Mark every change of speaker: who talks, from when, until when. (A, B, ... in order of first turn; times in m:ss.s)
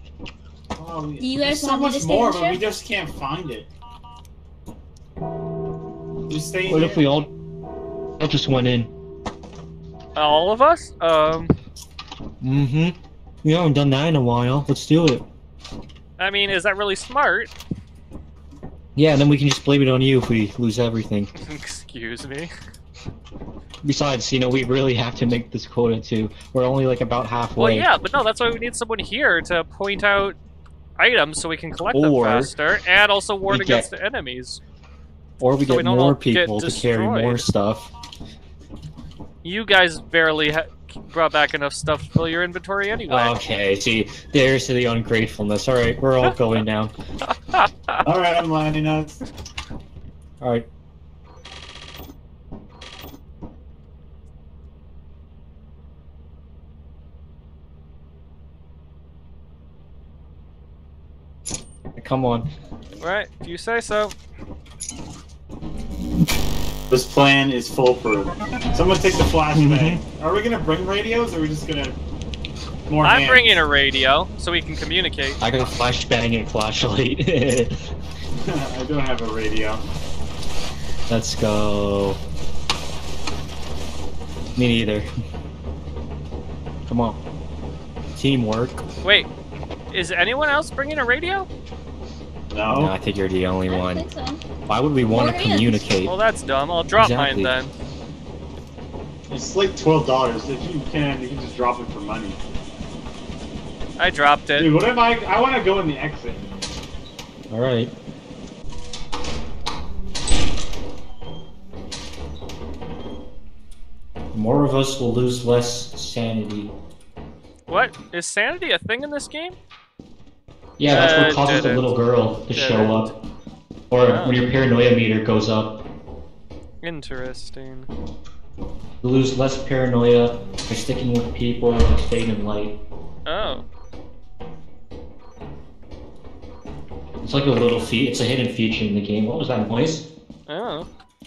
0:00.7-0:03.7 A
0:01.2-0:02.6 B
0:06.3-0:07.0 A
0:06.7-0:07.3 C
0:08.2-0:08.9 C
0:10.2-0:11.5 D
0:12.4-0:15.2 C
0:16.2-0:17.5 D
0:18.9-0:21.3 C
0:21.4-0:22.5 D
0:23.8-0:27.9 C
0:27.6-0:30.4 D
0:31.0-0:34.6 D
0:31.9-0:32.5 C
0:33.5-0:33.9 C
0:35.4-0:37.9 C
0:35.7-0:37.4 D
0:39.4-0:43.4 D
0:43.1-0:46.9 C
0:47.3-0:48.0 D
0:48.0-0:49.2 A
0:50.4-0:50.7 C
1:02.0-1:02.5 C
1:02.6-1:03.0 A
1:03.0-1:04.1 D
1:06.9-1:12.0 A
1:09.5-1:10.0 C
1:12.9-1:13.5 A
1:13.0-1:15.4 D
1:15.4-1:17.9 C
1:18.4-1:19.8 A
1:21.1-1:22.2 C
1:24.5-1:25.1 C
1:26.8-1:27.2 C
1:28.1-1:28.8 C
1:29.0-1:29.3 D
1:29.9-1:31.5 D
1:32.5-1:32.9 A
1:32.7-1:34.0 C
1:33.7-1:34.4 B
1:34.7-1:36.1 C
1:35.1-1:35.8 B
1:36.0-1:37.7 D
1:37.0-1:37.5 C
1:39.3-1:42.4 A
1:44.0-1:44.7 D
1:44.6-1:46.5 A
1:47.5-1:47.9 C
1:54.3-1:56.7 C
1:57.7-1:59.6 D
2:00.8-2:03.1 C
2:00.9-2:03.1 D
2:03.9-2:05.8 C
2:04.0-2:04.4 D
2:06.8-2:07.9 D
2:09.0-2:12.8 C
2:13.2-2:13.6 D
2:17.2-2:20.0 C
2:20.5-2:20.9 D